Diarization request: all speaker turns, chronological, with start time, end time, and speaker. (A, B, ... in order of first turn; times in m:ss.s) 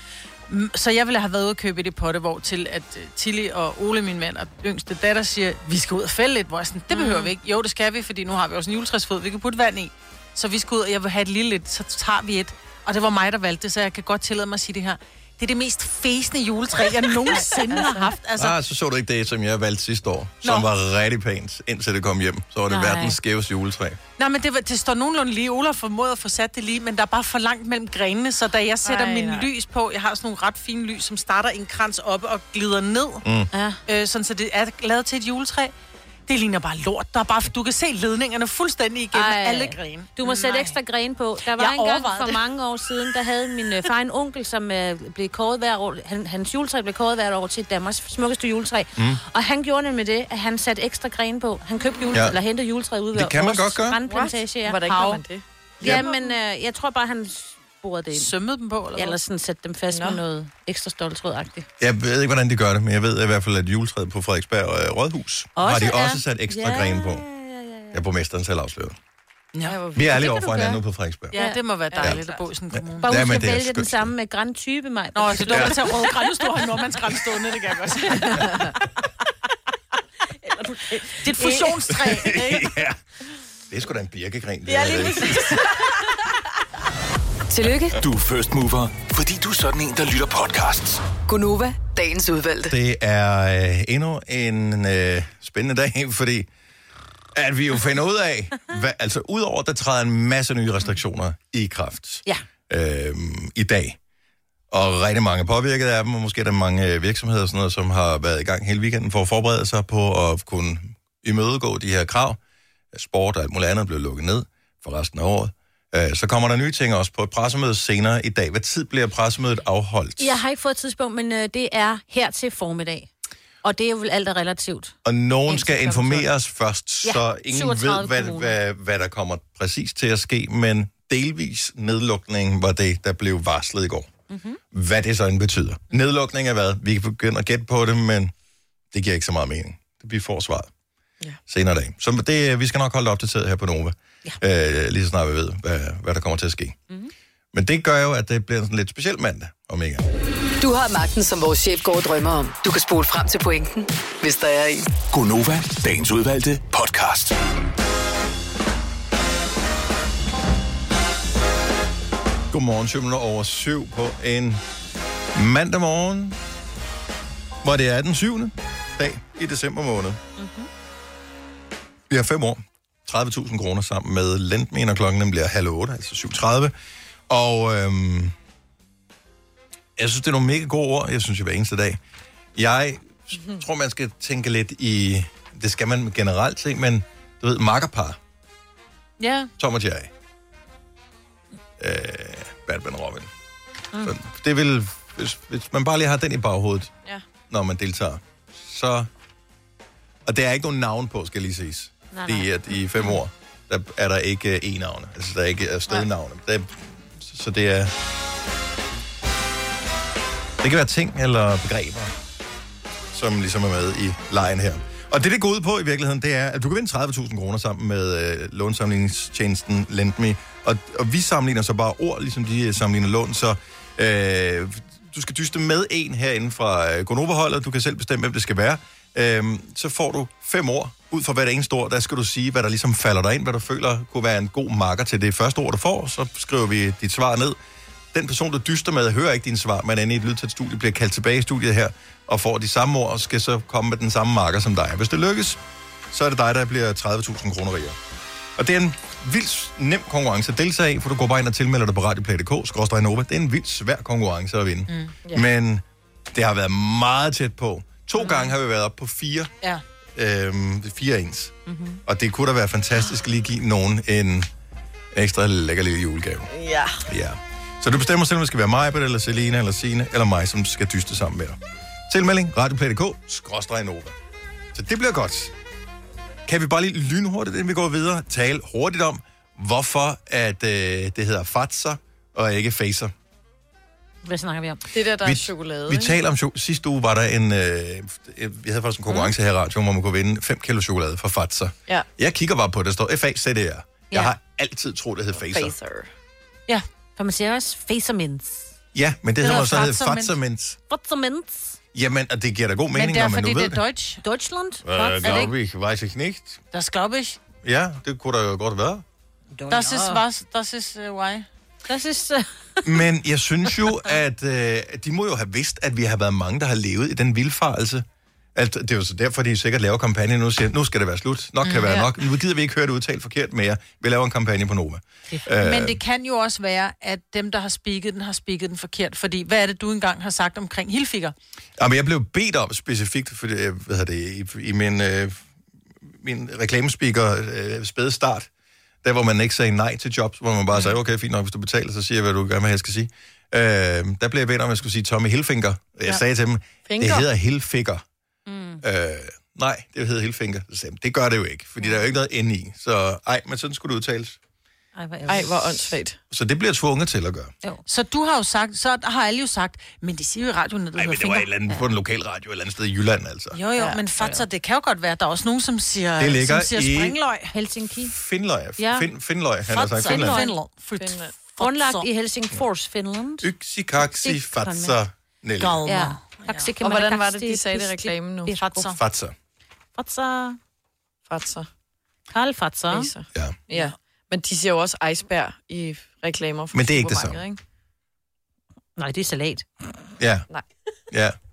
0:00.5-0:18.6 A
0:06.9-0:07.3 B
0:17.3-0:18.0 B
0:17.6-0:18.1 C
0:18.4-0:24.0 D
0:20.4-0:20.7 A
0:22.7-0:23.2 B
0:24.2-0:33.2 A
0:28.8-0:29.5 C
0:33.2-0:33.5 D
0:33.5-0:33.8 B
0:33.9-0:35.7 A
0:36.3-0:40.8 A
0:39.1-0:55.1 B
0:41.6-0:42.4 A
0:52.1-0:52.4 D
0:53.1-0:54.0 D
0:54.1-0:56.3 C
0:54.8-0:55.2 A
0:55.8-0:56.1 D
0:55.8-0:58.3 B
0:58.1-0:59.2 A
0:59.0-1:01.7 B
0:59.9-1:00.2 C
1:01.8-1:07.2 D
1:05.6-1:08.0 B
1:07.9-1:09.0 D
1:09.6-1:10.7 C
1:09.9-1:11.3 D
1:11.3-1:13.2 A
1:11.3-1:11.6 B
1:11.9-1:12.4 C
1:12.7-1:14.1 D
1:13.0-1:16.3 B
1:15.1-1:18.7 A
1:15.5-1:15.8 D
1:20.4-1:22.3 B
1:21.1-1:22.8 A
1:22.0-1:23.0 D
1:23.7-1:25.7 D
1:24.8-1:25.6 B
1:27.5-1:28.0 E
1:28.0-1:31.0 F
1:31.2-1:32.7 E
1:32.7-1:36.5 D
1:37.3-1:44.0 D
1:44.7-1:52.4 D
1:52.9-2:00.4 D
2:00.2-2:03.1 B
2:03.6-2:05.0 B
2:05.0-2:14.1 D
2:05.5-2:06.2 B
2:07.0-2:08.6 B
2:14.3-2:14.6 B
2:14.7-2:18.3 D
2:18.9-2:20.7 D
2:21.5-2:26.8 D
2:27.5-2:30.1 D
2:30.6-2:34.9 E
2:35.1-2:37.4 F
2:42.5-2:44.6 D
2:45.3-2:46.4 D
2:47.6-2:50.2 D
2:50.4-2:50.7 B
2:52.1-2:56.7 D
2:57.3-2:58.3 D
3:00.0-3:02.0 D
3:02.6-3:08.2 D
3:09.2-3:09.5 A
3:09.6-3:10.1 D
3:11.8-3:13.3 D
3:14.0-3:16.9 D
3:17.5-3:19.1 D
3:20.2-3:27.9 D
3:22.1-3:22.5 B
3:30.6-3:32.1 D
3:33.1-3:57.6 D
3:58.1-4:05.6 D
4:06.1-4:08.0 D
4:08.6-4:19.5 D
4:14.9-4:15.1 A
4:20.2-4:24.5 D
4:21.7-4:22.0 B
4:25.1-4:26.5 D
4:26.5-4:27.0 C
4:27.0-4:34.1 D
4:34.7-4:35.5 D
4:36.5-4:43.1 D
4:44.2-4:44.8 B
4:44.9-4:46.2 C
4:45.2-4:55.7 D
4:55.4-4:56.1 C
4:57.2-4:58.8 B
4:58.9-5:00.8 D
4:59.4-5:00.4 A
5:00.9-5:01.8 B
5:01.9-5:03.8 D
5:02.9-5:04.2 A
5:04.2-5:05.5 B
5:04.8-5:06.6 D
5:06.7-5:07.4 A
5:07.6-5:09.0 D
5:09.5-5:10.2 B
5:09.7-5:11.5 A
5:11.9-5:13.0 B
5:12.8-5:26.0 D
5:21.6-5:22.0 A
5:25.3-5:31.3 A
5:31.8-5:35.4 D
5:36.0-5:38.5 D
5:39.0-5:48.0 D
5:46.9-5:47.3 C
5:48.5-5:48.8 B
5:48.8-5:54.4 D
5:55.0-5:55.9 B
5:55.2-5:56.2 C
5:56.3-5:57.5 D
5:57.9-6:01.5 A
6:01.0-6:03.6 D
6:03.5-6:07.5 A
6:04.2-6:04.4 B
6:06.2-6:07.2 D
6:07.5-6:08.1 B
6:08.0-6:10.4 D
6:08.8-6:09.1 B
6:09.7-6:10.5 B
6:09.8-6:12.1 A
6:11.0-6:11.3 C
6:11.6-6:13.5 B
6:13.4-6:15.9 D
6:14.0-6:15.0 B
6:15.6-6:16.7 A
6:15.8-6:18.9 B
6:16.8-6:18.5 C
6:18.5-6:19.0 A
6:18.9-6:19.3 D
6:20.0-6:20.6 B
6:21.3-6:21.7 C
6:22.3-6:23.1 B
6:22.9-6:27.6 C
6:26.7-6:27.4 D
6:29.0-6:29.6 B
6:30.2-6:30.5 D
6:31.1-6:31.4 D